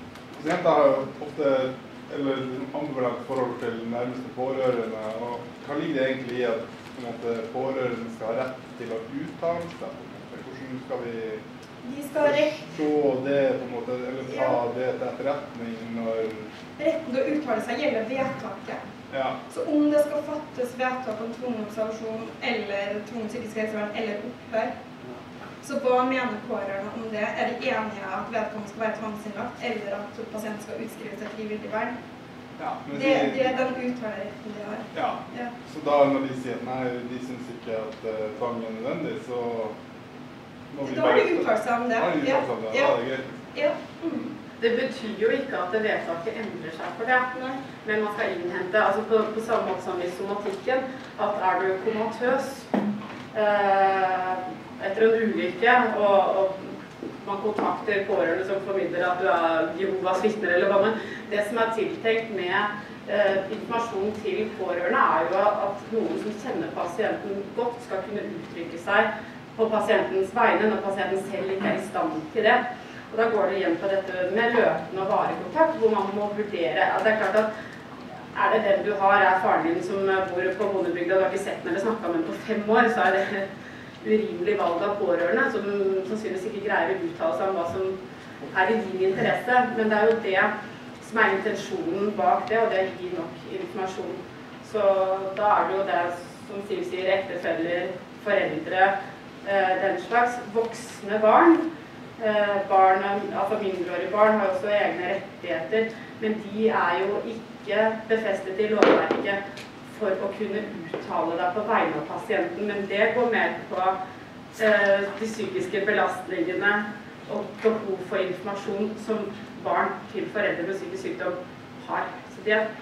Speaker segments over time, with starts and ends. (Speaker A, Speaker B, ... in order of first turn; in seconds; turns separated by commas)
Speaker A: 0.3-11.4, Speaker B: 11.8-12.6, Speaker A: 12.2-16.5, Speaker B: 14.3-14.6, Speaker B: 16.8-18.8, Speaker A: 19.1-19.4, Speaker B: 19.5-24.7, Speaker B: 25.6-31.9, Speaker A: 32.6-33.6, Speaker B: 32.9-35.5, Speaker A: 34.9-39.8, Speaker A: 40.7-43.4, Speaker B: 40.8-42.9, Speaker B: 43.5-44.3, Speaker C: 44.6-47.3, Speaker B: 47.3-47.6, Speaker C: 47.8-52.8, Speaker C: 53.3-77.5, Speaker C: 78.3-83.5, Speaker C: 84.0-88.0, Speaker C: 88.5-90.5, Speaker C: 91.0-98.9, Speaker C: 99.4-101.6, Speaker C: 102.2-109.4, Speaker C: 109.9-114.0, Speaker C: 114.5-122.7